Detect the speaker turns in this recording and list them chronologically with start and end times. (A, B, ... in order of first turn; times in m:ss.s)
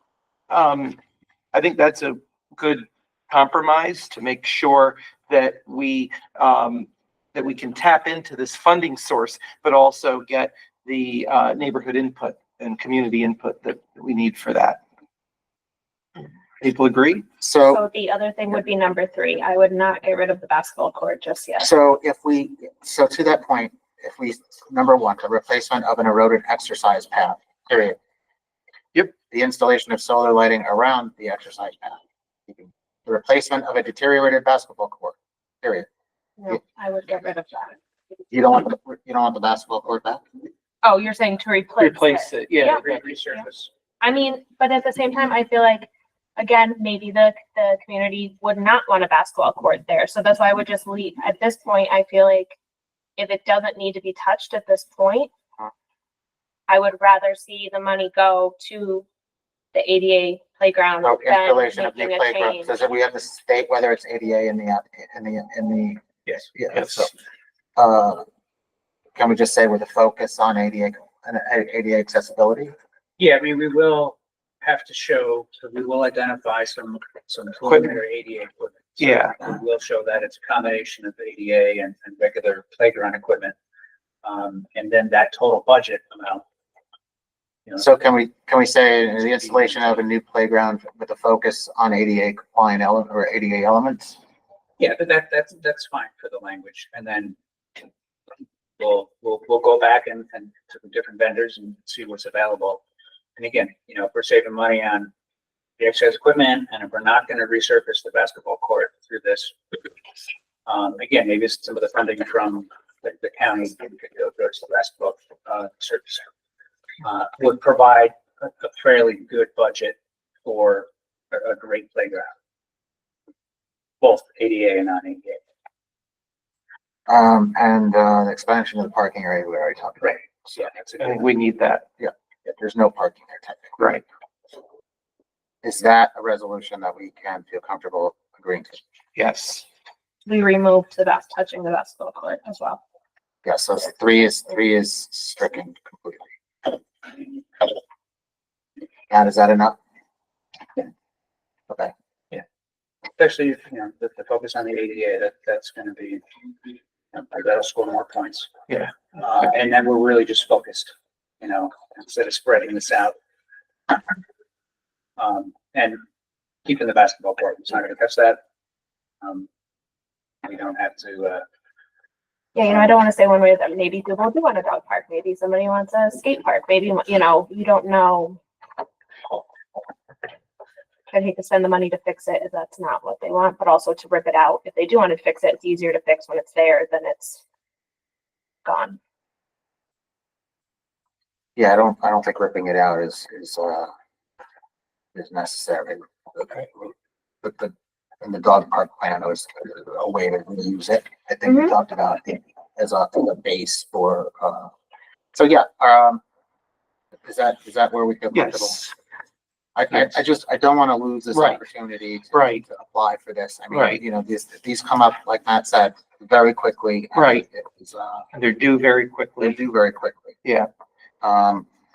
0:00.5-0:01.0 A
0:01.5-0:14.8 A
0:16.6-0:17.2 A
0:17.4-0:17.8 B
0:17.7-0:21.7 C
0:21.6-0:28.0 B
0:29.3-0:35.9 B
0:36.4-0:37.8 C
0:38.3-0:40.2 B
0:40.8-0:42.8 C
0:41.8-0:43.1 A
0:42.6-0:43.7 D
0:44.0-0:52.5 C
0:53.2-0:55.3 C
0:56.7-0:59.0 C
0:59.7-1:02.7 C
1:01.0-1:06.0 B
1:06.5-1:07.1 B
1:06.7-1:07.1 A
1:07.8-1:08.2 B
1:09.1-1:12.7 B
1:13.2-1:23.5 D
1:17.7-1:17.9 A
1:19.0-1:19.4 A
1:24.2-1:26.4 D
1:27.8-1:34.2 B
1:34.8-1:37.4 D
1:38.8-1:42.8 D
1:43.4-1:45.1 D
1:45.8-1:49.8 D
1:50.6-1:56.3 D
1:57.0-2:02.3 D
2:04.0-2:05.4 D
2:07.1-2:10.2 B
2:10.0-2:11.2 D
2:11.0-2:11.8 A
2:12.0-2:13.8 B
2:15.6-2:18.8 B
2:19.2-2:19.6 A
2:20.2-2:22.8 C
2:23.4-2:26.3 B
2:29.1-2:29.8 B
2:33.2-2:36.2 D
2:37.1-2:38.5 D
2:39.1-2:43.1 D
2:45.2-2:46.0 D
2:46.6-2:48.4 D
2:49.2-2:49.5 D
2:50.4-2:51.4 D
2:52.5-2:58.4 C
3:01.1-3:07.4 C
3:08.6-3:09.0 C
3:11.6-3:13.9 B
3:15.1-3:16.9 B
3:17.4-3:24.7 B
3:21.5-3:21.7 C
3:25.3-3:26.2 B
3:27.2-3:28.8 B
3:28.3-3:28.9 A
3:29.7-3:38.3 B
3:31.3-3:31.6 A
3:32.3-3:32.6 A
3:33.7-3:34.0 A
3:37.1-3:37.4 A
3:38.3-3:39.6 A
3:39.4-3:40.4 B
3:41.2-3:41.6 B